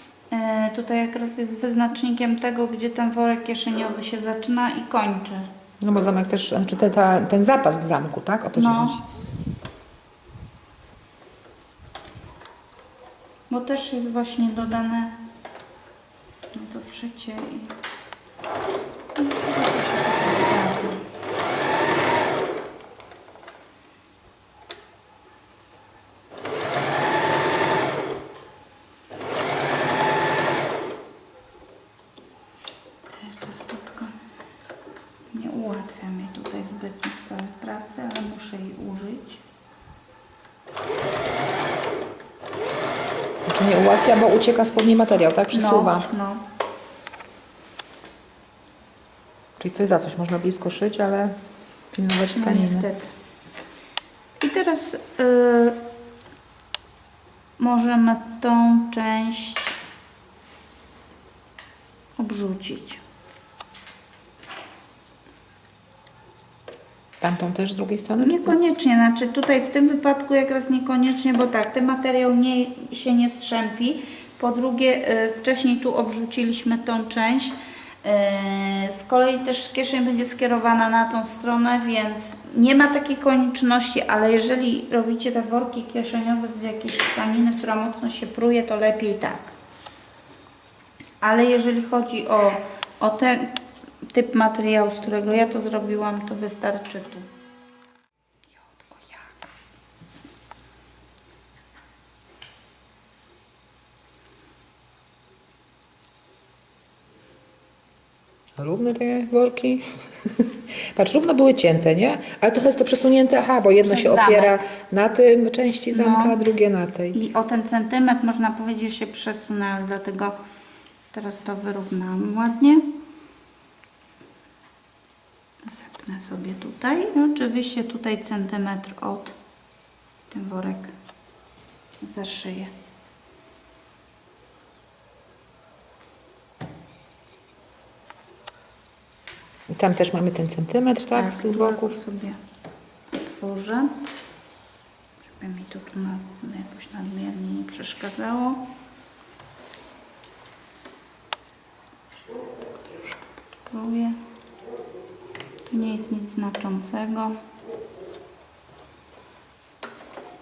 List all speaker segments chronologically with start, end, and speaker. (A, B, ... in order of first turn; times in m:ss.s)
0:00.3-0:05.5 A
0:05.8-0:09.0 B
0:08.6-0:09.0 A
0:13.5-0:15.2 A
0:16.5-0:17.7 A
0:19.2-0:21.0 A
0:33.1-0:34.2 A
0:35.3-0:39.4 A
0:43.5-0:46.1 B
0:45.5-0:46.4 A
0:49.6-0:51.4 B
0:51.9-0:52.9 B
0:52.3-0:53.1 A
0:54.4-0:55.8 A
0:57.6-0:59.8 A
1:02.2-1:03.0 A
1:07.2-1:08.6 B
1:08.2-1:29.5 A
1:31.2-1:33.6 A
1:34.1-1:37.3 A
1:38.7-1:39.5 A
1:48.6-1:57.2 B
1:53.8-1:54.6 A
1:55.9-1:56.4 A
1:57.1-2:00.4 A
2:01.1-2:02.9 A
2:05.6-2:09.4 A
2:10.3-2:11.0 A
2:12.0-2:12.7 A
2:19.7-2:21.9 B
2:21.1-2:22.4 A
2:23.1-2:24.0 A
2:25.2-2:28.6 A
2:32.9-2:34.2 A
2:35.7-2:37.4 A